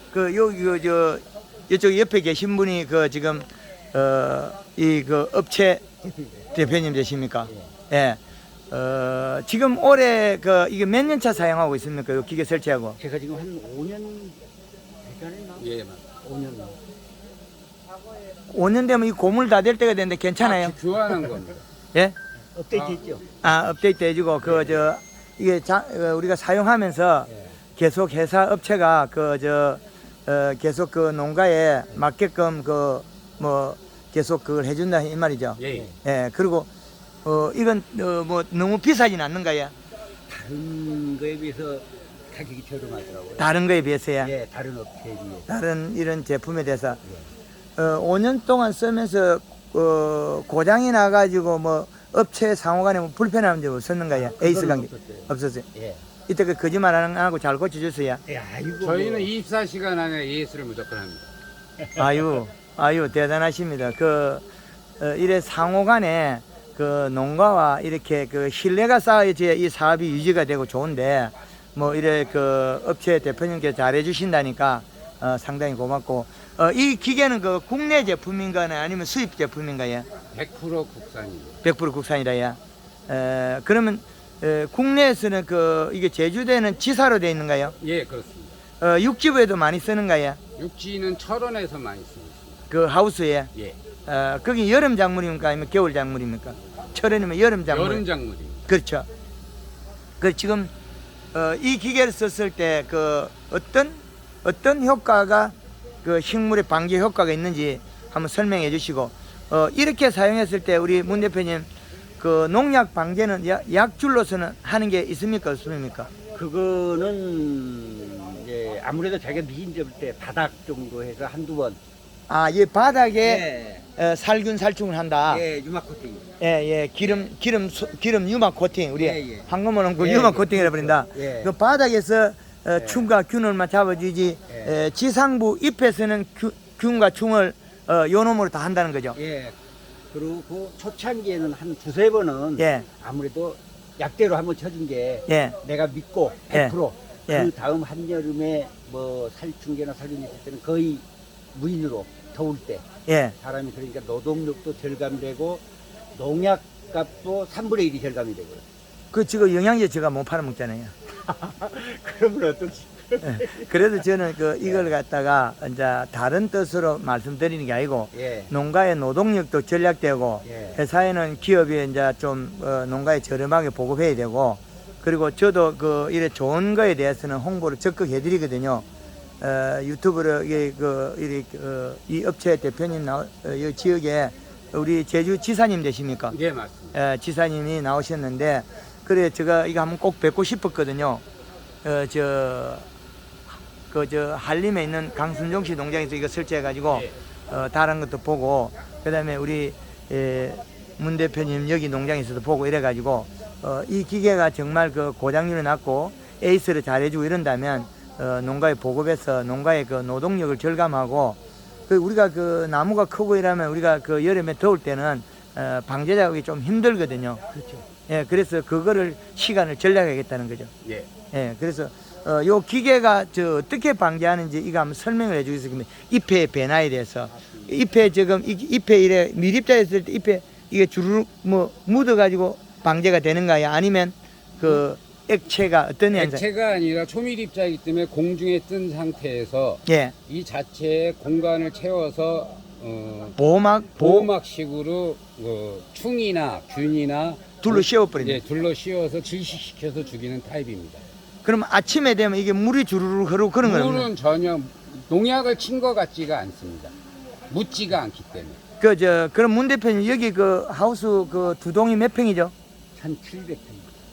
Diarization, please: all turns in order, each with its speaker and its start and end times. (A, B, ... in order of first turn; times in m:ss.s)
0:00.1-0:05.8 A
0:06.0-0:06.8 B
0:06.6-0:08.2 A
0:08.7-0:13.0 A
0:13.0-0:14.4 B
0:15.0-0:15.6 B
0:15.6-0:16.0 C
0:16.2-0:16.8 B
0:18.5-0:20.8 A
0:20.4-0:21.6 C
0:22.6-0:23.5 B
0:23.4-0:36.7 A
0:24.4-0:24.8 B
0:35.6-0:35.9 C
0:37.2-0:39.7 A
0:40.3-0:43.5 B
0:43.4-0:44.3 A
0:44.2-0:45.5 B
0:45.5-0:47.0 A
0:47.8-0:55.7 A
0:54.1-0:56.0 B
0:56.3-0:58.2 A
0:58.3-0:59.3 B
0:58.8-1:01.3 C
1:01.8-1:02.1 B
1:02.0-1:04.4 A
1:05.0-1:20.1 A
1:20.3-1:21.6 C
1:21.6-1:27.8 A
1:27.8-1:28.6 C
1:28.8-1:30.4 A
1:30.6-1:32.7 C
1:32.7-1:33.5 A
1:34.1-1:38.0 A
1:37.7-1:38.7 C
1:38.7-1:39.1 A
1:40.2-1:40.7 A
1:41.3-1:51.7 A
1:52.2-1:56.1 A
1:56.3-2:01.8 B
2:02.3-2:03.5 A
2:03.2-2:03.8 B
2:04.0-2:05.4 A
2:05.3-2:06.3 B
2:06.4-2:19.2 A
2:07.0-2:07.3 B
2:09.0-2:11.5 B
2:12.8-2:13.1 B
2:14.5-2:14.8 B
2:19.1-2:19.6 B
2:20.1-2:32.8 B
2:22.6-2:22.9 A
2:25.3-2:25.6 A
2:33.1-2:33.4 A
2:33.4-2:35.6 B
2:36.2-2:38.6 B
2:39.1-2:40.9 A
2:41.2-2:43.9 B
2:43.2-2:58.8 A
2:44.6-2:44.9 B
2:48.1-2:48.5 B
2:50.4-2:50.8 B
2:59.4-3:06.4 A
3:06.3-3:07.0 C
3:06.9-3:11.2 A
3:11.8-3:12.9 A
3:13.9-3:37.4 A
3:37.5-3:37.9 B
3:38.1-3:40.7 A
3:41.3-3:56.4 A
3:47.3-3:47.8 B
3:56.1-4:03.4 C
3:59.9-4:00.1 A
4:03.4-4:04.3 A
4:04.0-4:11.0 C
4:07.6-4:08.4 A
4:11.4-4:14.1 A
4:13.6-4:16.9 C
4:17.5-4:18.6 C
4:18.8-4:22.5 A
4:23.0-4:23.9 B